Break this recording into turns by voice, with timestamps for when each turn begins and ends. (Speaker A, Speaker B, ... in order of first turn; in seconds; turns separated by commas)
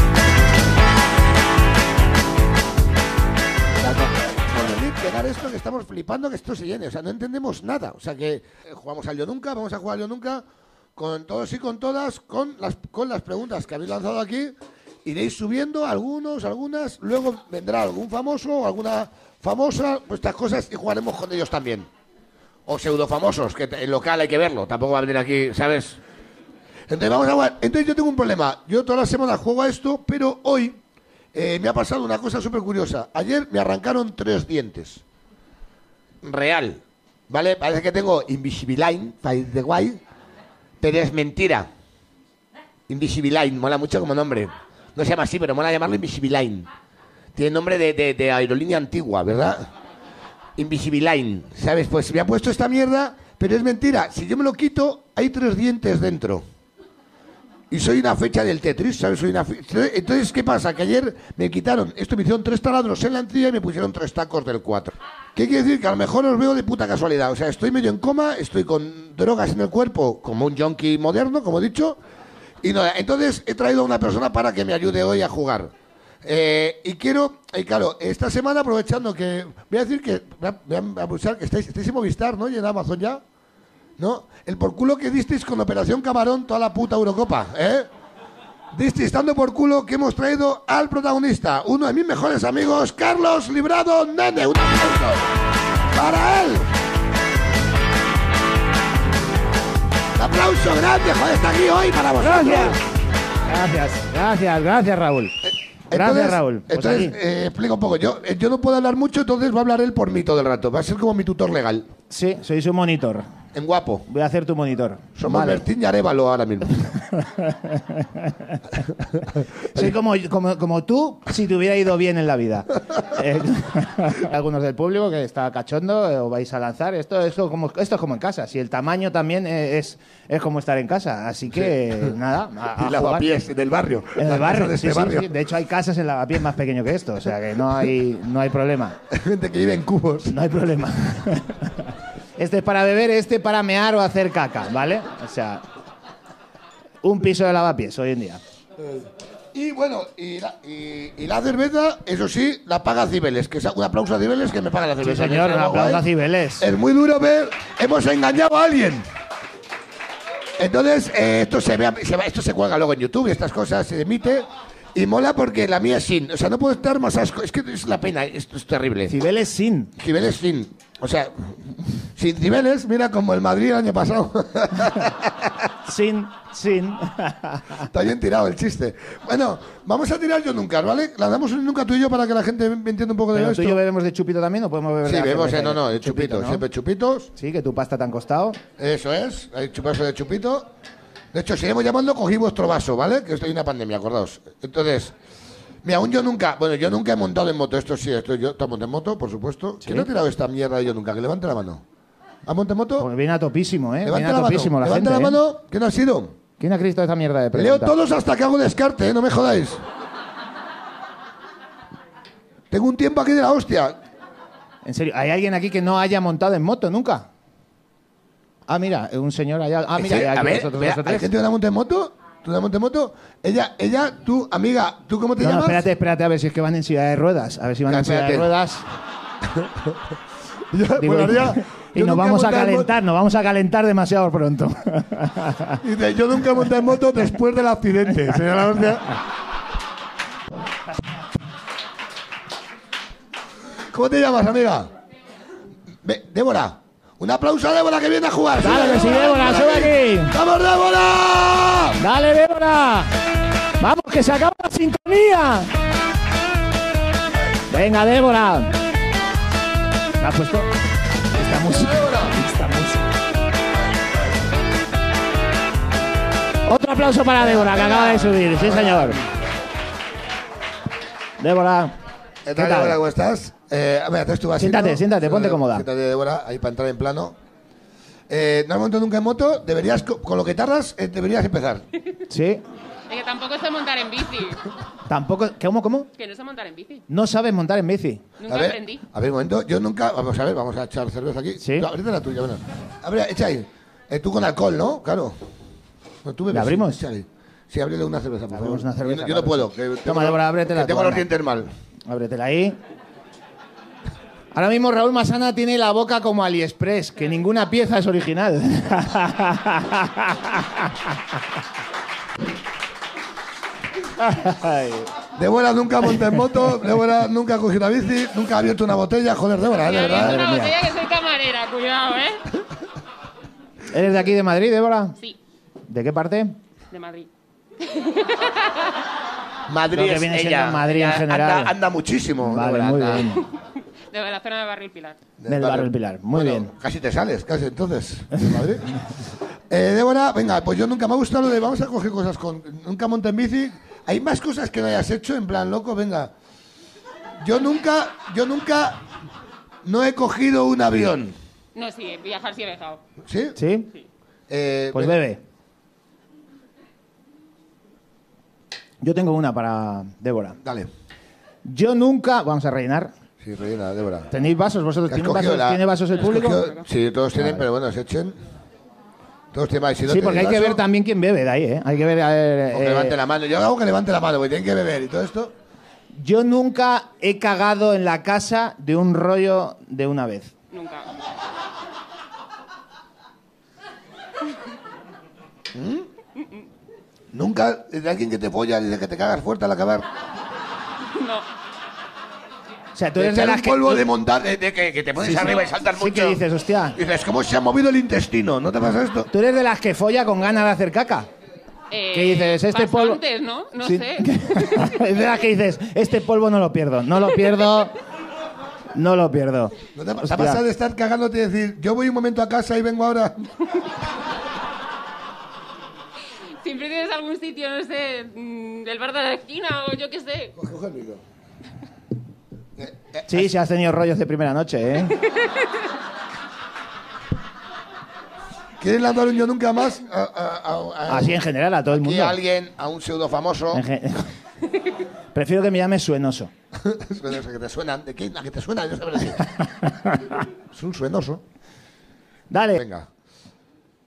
Speaker A: 3.8-10.4, Speaker A: 11.0-21.9, Speaker A: 22.7-26.0, Speaker A: 26.9-30.8, Speaker A: 31.3-35.0, Speaker A: 36.2-40.0, Speaker A: 40.8-41.7, Speaker A: 42.9-46.7, Speaker A: 47.4-49.7, Speaker A: 50.6-56.5, Speaker A: 57.7-72.0, Speaker A: 72.6-75.7, Speaker A: 76.2-83.2, Speaker A: 84.0-87.9, Speaker A: 88.7-95.3, Speaker A: 95.9-96.7, Speaker A: 100.2-102.8, Speaker B: 102.2-102.8, Speaker B: 103.5-105.4, Speaker A: 105.4-111.9, Speaker B: 105.9-107.2, Speaker B: 112.1-113.2, Speaker A: 113.5-114.1, Speaker B: 114.1-115.7, Speaker A: 115.2-117.0, Speaker B: 117.1-118.6, Speaker A: 119.4-120.0, Speaker B: 119.7-133.3, Speaker A: 131.5-132.2, Speaker A: 132.8-135.3, Speaker B: 134.2-139.0, Speaker A: 139.1-140.3, Speaker B: 140.3-145.6, Speaker B: 147.0-148.4, Speaker A: 149.5-156.1, Speaker B: 155.0-156.7, Speaker A: 156.6-159.1, Speaker A: 160.6-169.2, Speaker B: 169.1-169.9, Speaker A: 170.0-175.7, Speaker B: 175.8-177.9, Speaker A: 177.9-183.8, Speaker B: 183.3-186.7, Speaker A: 185.0-187.3, Speaker B: 187.4-188.6, Speaker A: 188.8-190.7, Speaker A: 191.3-195.1, Speaker A: 195.8-201.8, Speaker B: 199.8-200.1, Speaker A: 202.5-203.1, Speaker B: 203.0-205.4, Speaker A: 204.0-206.4, Speaker B: 206.6-207.9, Speaker A: 207.6-209.8, Speaker A: 212.7-214.0, Speaker B: 214.8-217.3, Speaker B: 218.7-221.3, Speaker A: 220.0-225.9, Speaker B: 225.4-228.8, Speaker A: 227.9-228.5, Speaker A: 229.5-229.9, Speaker A: 230.7-232.9, Speaker B: 231.0-235.8, Speaker A: 235.8-239.2, Speaker A: 243.9-244.9, Speaker A: 246.0-252.0, Speaker B: 248.6-250.3, Speaker B: 252.0-253.1, Speaker B: 253.8-255.7, Speaker B: 257.7-258.7, Speaker B: 260.2-260.7, Speaker B: 261.4-263.1, Speaker A: 261.9-262.3, Speaker B: 266.7-269.2, Speaker A: 267.4-269.2, Speaker B: 271.4-271.9, Speaker A: 272.4-277.4, Speaker B: 272.5-273.0, Speaker B: 274.6-275.9, Speaker A: 278.3-281.9, Speaker B: 282.3-282.6, Speaker C: 283.1-284.6, Speaker B: 285.1-286.1, Speaker C: 286.2-287.1, Speaker B: 287.1-288.2, Speaker C: 288.4-289.0, Speaker A: 288.5-295.4, Speaker B: 291.6-291.9, Speaker A: 296.2-301.7, Speaker B: 296.5-297.0, Speaker B: 298.5-301.3, Speaker B: 302.1-302.8, Speaker B: 304.5-311.1, Speaker B: 314.2-315.1, Speaker A: 315.4-320.4, Speaker C: 319.8-322.5, Speaker B: 320.2-320.8, Speaker B: 323.9-325.2, Speaker B: 325.9-326.6, Speaker C: 326.9-327.3, Speaker C: 327.8-328.9, Speaker A: 329.7-333.4, Speaker B: 329.9-331.8, Speaker B: 332.4-333.5, Speaker C: 334.1-335.2, Speaker A: 335.4-338.9, Speaker B: 335.5-336.7, Speaker A: 339.7-346.3, Speaker A: 347.4-349.0, Speaker A: 349.8-351.4, Speaker C: 351.8-353.0, Speaker A: 353.2-353.6, Speaker B: 353.6-353.9, Speaker A: 354.5-355.2, Speaker B: 354.9-355.4, Speaker B: 359.0-360.6, Speaker A: 360.6-360.9, Speaker B: 361.6-363.1, Speaker A: 363.4-364.3, Speaker B: 364.3-366.7, Speaker A: 365.1-368.4, Speaker B: 367.4-367.6, Speaker A: 369.5-370.8, Speaker B: 370.1-373.2, Speaker A: 372.7-375.6, Speaker B: 376.1-380.5, Speaker C: 380.7-381.1, Speaker A: 385.7-386.1, Speaker A: 387.3-390.1, Speaker C: 391.1-391.5, Speaker B: 393.0-394.1, Speaker A: 393.2-396.4, Speaker B: 395.2-397.0, Speaker A: 397.0-399.3, Speaker B: 399.3-401.3, Speaker C: 401.9-405.0, Speaker B: 402.1-403.2, Speaker B: 403.8-407.9, Speaker B: 408.9-410.6, Speaker A: 409.9-413.6, Speaker C: 416.6-420.5, Speaker A: 420.6-421.2, Speaker A: 422.8-423.5, Speaker B: 423.3-425.2, Speaker C: 425.3-425.7, Speaker A: 428.8-433.8, Speaker B: 431.1-432.4, Speaker B: 433.7-434.3, Speaker B: 435.3-436.5, Speaker A: 436.8-439.5, Speaker B: 439.8-440.3, Speaker A: 440.7-441.4, Speaker B: 442.5-442.8, Speaker A: 442.8-443.1